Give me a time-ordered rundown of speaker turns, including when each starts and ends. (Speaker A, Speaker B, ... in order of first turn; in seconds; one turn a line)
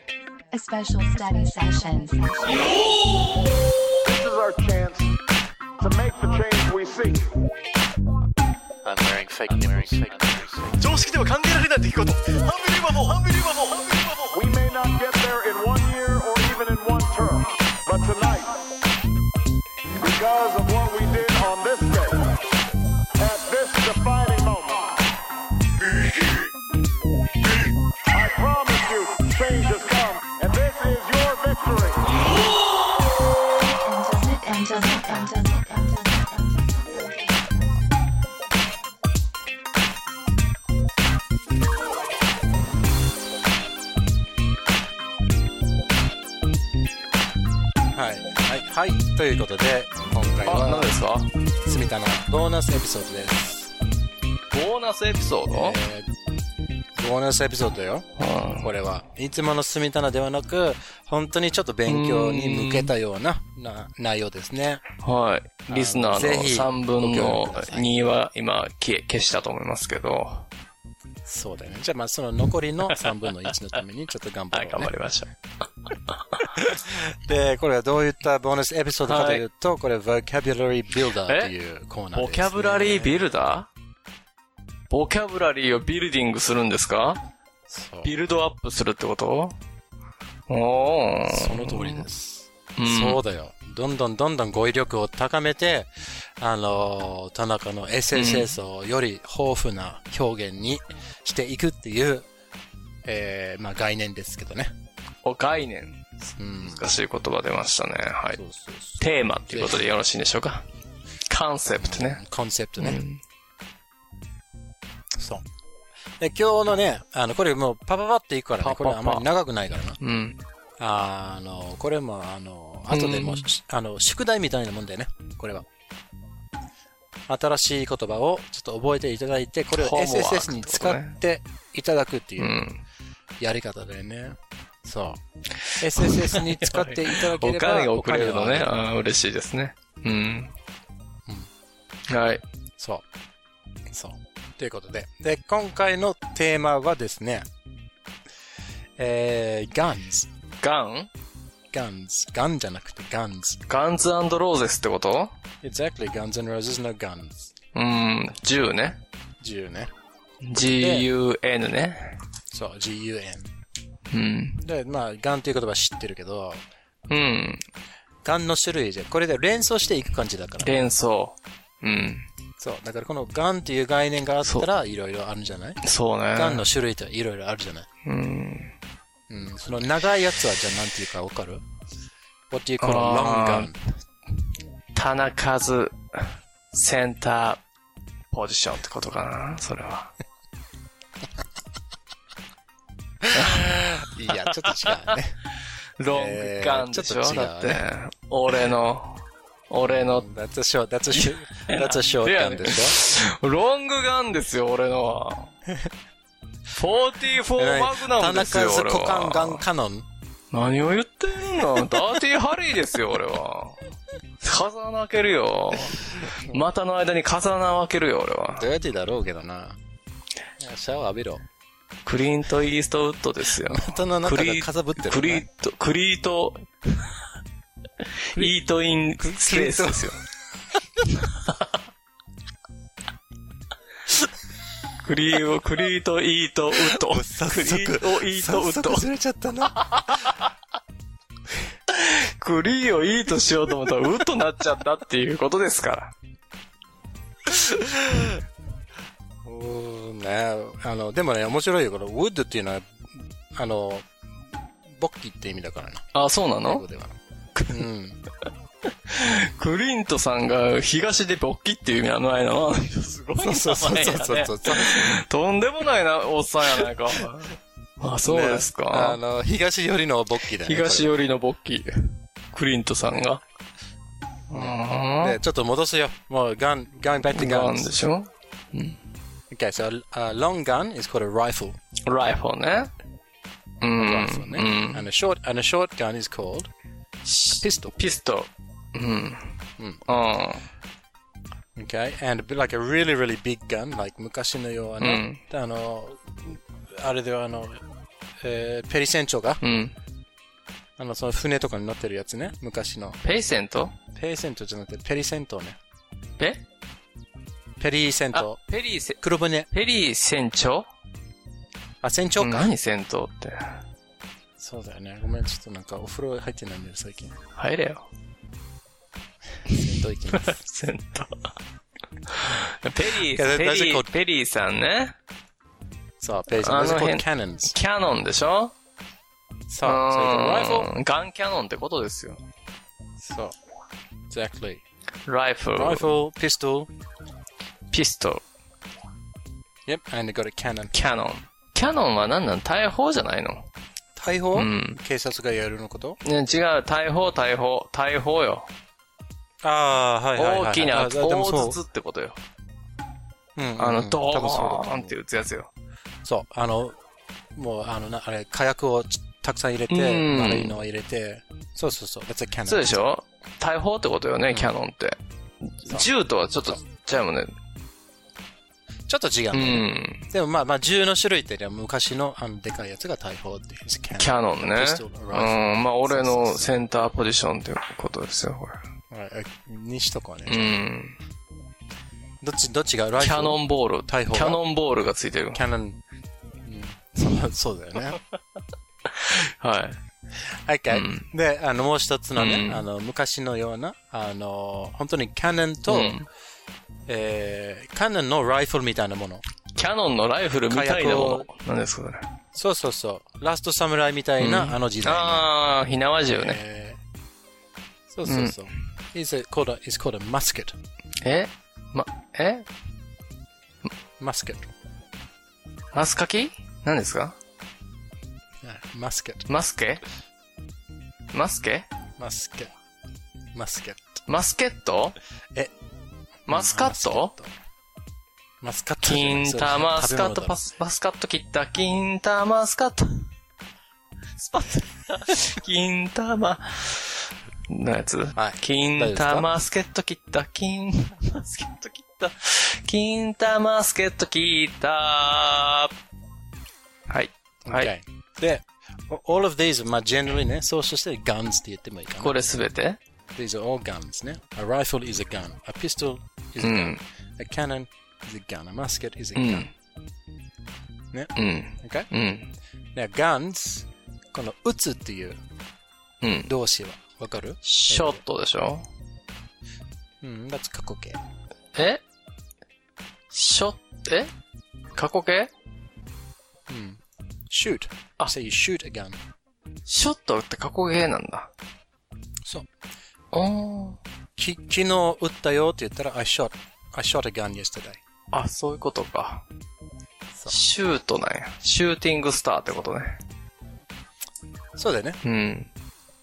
Speaker A: 0.5-2.8
Speaker B: 4.0-5.1
Speaker B: 5.8-7.3
Speaker C: 8.8-14.4
Speaker B: 14.3-18.7
Speaker B: 20.0-22.4
Speaker B: 23.2-25.0
Speaker B: 28.1-32.1
Speaker A: 33.6-37.5
Speaker D: 47.9-51.0
Speaker E: 50.4-51.3
Speaker D: 51.6-53.7
Speaker E: 54.5-55.8
Speaker D: 55.5-56.1
Speaker D: 57.0-64.8
Speaker E: 58.2-58.7
Speaker E: 61.9-62.9
Speaker E: 65.0-70.5
Speaker D: 65.7-68.0
Speaker D: 71.2-74.9
Speaker E: 74.5-75.3
Speaker D: 76.5-83.3
Speaker E: 79.0-79.4
Speaker E: 81.2-81.5
Speaker E: 82.1-83.7
Speaker E: 84.9-87.2
Speaker D: 87.7-88.1
Speaker E: 88.0-89.5
Speaker E: 90.5-92.0
Speaker D: 91.3-102.2
Speaker E: 92.8-93.2
Speaker E: 98.1-98.5
Speaker D: 103.0-104.7
Speaker E: 105.2-106.0
Speaker D: 106.4-106.9
Speaker E: 106.6-108.4
Speaker D: 108.3-109.9
Speaker E: 109.0-110.7
Speaker E: 111.3-112.2
Speaker D: 111.8-113.0
Speaker E: 112.8-113.2
Speaker D: 115.2-115.4
Speaker D: 116.2-120.0
Speaker E: 118.6-119.3
Speaker E: 120.0-120.4
Speaker D: 120.8-125.7
Speaker E: 122.9-123.5
Speaker D: 127.3-132.6
Speaker E: 129.7-131.1
Speaker E: 132.4-132.8
Speaker D: 133.4-135.2
Speaker E: 135.7-140.5
Speaker D: 135.7-138.7
Speaker E: 142.1-142.4
Speaker D: 142.8-143.0
Speaker D: 143.9-147.4
Speaker D: 149.0-150.3
Speaker E: 150.6-151.1
Speaker D: 151.7-153.6
Speaker E: 153.7-155.3
Speaker D: 155.6-157.5
Speaker E: 157.7-159.0
Speaker D: 159.4-159.9
Speaker E: 160.4-162.2
Speaker D: 160.6-161.1
Speaker D: 162.5-163.5
Speaker E: 164.1-164.6
Speaker D: 164.6-166.6
Speaker E: 167.1-167.6
Speaker D: 168.2-170.9
Speaker E: 170.6-172.3
Speaker D: 172.6-175.8
Speaker E: 175.8-176.7
Speaker D: 176.3-177.9
Speaker E: 178.0-178.8
Speaker D: 179.3-181.6
Speaker D: 182.5-183.9
Speaker E: 182.8-183.7
Speaker E: 184.9-187.6
Speaker E: 188.3-190.1
Speaker D: 193.2-195.4
Speaker E: 193.3-195.2
Speaker E: 196.0-200.3
Speaker D: 196.1-197.8
Speaker D: 199.8-203.0
Speaker E: 201.1-205.5
Speaker E: 206.7-209.6
Speaker D: 207.5-210.1
Speaker E: 210.5-213.8
Speaker E: 214.4-218.7
Speaker D: 216.2-216.6
Speaker D: 218.6-219.8
Speaker D: 220.6-221.4
Speaker E: 222.0-227.1
Speaker D: 223.6-225.4
Speaker E: 228.0-230.2
Speaker D: 229.2-230.2
Speaker E: 231.2-231.7
Speaker E: 235.0-239.1
Speaker D: 236.7-240.0
Speaker E: 239.7-240.4
Speaker E: 241.9-246.1
Speaker D: 247.6-248.4
Speaker D: 249.4-254.2
Speaker D: 254.8-256.0
Speaker E: 256.1-256.8
Speaker D: 256.6-257.1
Speaker E: 257.6-257.8
Speaker D: 257.7-258.2
Speaker E: 259.1-269.2
Speaker D: 263.4-265.1
Speaker D: 268.2-271.1
Speaker E: 270.5-273.4
Speaker E: 274.5-275.4
Speaker D: 274.5-277.9
Speaker E: 277.3-279.0
Speaker D: 279.5-281.8
Speaker E: 282.0-282.9
Speaker E: 283.8-285.0
Speaker D: 283.9-286.7
Speaker E: 287.2-290.6
Speaker D: 287.6-287.9
Speaker D: 289.8-290.0
Speaker D: 291.8-297.8
Speaker E: 295.0-295.4
Speaker D: 298.4-299.6
Speaker E: 299.6-299.9
Speaker D: 301.0-303.2
Speaker E: 303.2-303.9
Speaker D: 304.1-305.8
Speaker D: 307.8-308.6
Speaker E: 308.3-309.2
Speaker D: 309.2-309.7
Speaker E: 309.7-310.9
Speaker D: 312.0-312.7
Speaker E: 312.4-313.8
Speaker D: 314.6-317.3
Speaker E: 317.5-318.1
Speaker D: 319.7-320.6
Speaker E: 320.3-321.5
Speaker E: 322.3-325.1
Speaker D: 323.2-324.1
Speaker D: 326.2-327.7
Speaker E: 326.5-328.7
Speaker D: 329.7-330.9
Speaker E: 329.8-332.4
Speaker D: 333.2-333.5
Speaker D: 334.3-334.8
Speaker E: 335.2-336.1
Speaker D: 335.7-336.9
Speaker E: 337.9-338.4
Speaker D: 339.9-340.9
Speaker E: 340.9-343.7
Speaker D: 344.1-346.2
Speaker E: 344.5-345.0
Speaker E: 346.2-348.7
Speaker D: 349.6-351.8
Speaker E: 350.3-352.4
Speaker D: 353.6-355.2
Speaker E: 353.8-355.7
Speaker D: 356.2-357.0
Speaker D: 357.5-363.1
Speaker E: 359.9-360.8
Speaker E: 362.6-367.5
Speaker D: 369.1-376.7
Speaker E: 369.5-370.3
Speaker E: 374.2-378.8
Speaker D: 379.1-380.8
Speaker E: 380.4-381.2
Speaker D: 382.4-384.6
Speaker E: 383.2-385.6
Speaker D: 385.5-386.0
Speaker D: 386.6-388.2
Speaker E: 389.1-390.0
Speaker D: 390.4-396.2
Speaker E: 390.9-391.3
Speaker E: 392.4-392.8
Speaker E: 395.9-396.2
Speaker D: 397.1-399.4
Speaker E: 399.7-402.3
Speaker D: 400.7-401.5
Speaker D: 402.5-405.5
Speaker E: 404.4-406.6
Speaker D: 406.3-407.0
Speaker D: 408.1-410.8
Speaker E: 408.2-408.7
Speaker E: 411.2-412.7
Speaker D: 414.2-414.6
Speaker E: 415.9-417.4
Speaker D: 418.6-419.5
Speaker E: 419.5-420.0
Speaker E: 421.3-421.9
Speaker D: 422.2-422.7
Speaker D: 423.5-424.2
Speaker E: 424.3-425.1
Speaker E: 426.5-427.3
Speaker D: 426.5-427.5
Speaker D: 428.6-430.6
Speaker E: 429.0-433.3
Speaker E: 434.4-445.9
Speaker D: 438.3-439.5
Speaker E: 447.1-447.9
Speaker D: 447.6-452.4
Speaker E: 452.2-453.0
Speaker D: 453.3-459.7
Speaker E: 456.6-457.0
Speaker E: 459.3-459.7
Speaker D: 461.1-462.1
Speaker E: 461.4-462.5
Speaker D: 462.9-465.4
Speaker E: 466.2-466.5
Speaker D: 466.4-468.2
Speaker E: 467.6-468.9
Speaker D: 470.2-471.2
Speaker E: 471.7-472.0
Speaker E: 473.3-474.3
Speaker E: 474.9-475.5
Speaker D: 476.7-479.2
Speaker E: 479.9-481.5
Speaker E: 483.3-484.0
Speaker D: 484.4-488.0
Speaker E: 488.3-489.4
Speaker E: 490.5-493.2
Speaker D: 494.8-495.2
Speaker E: 495.2-495.7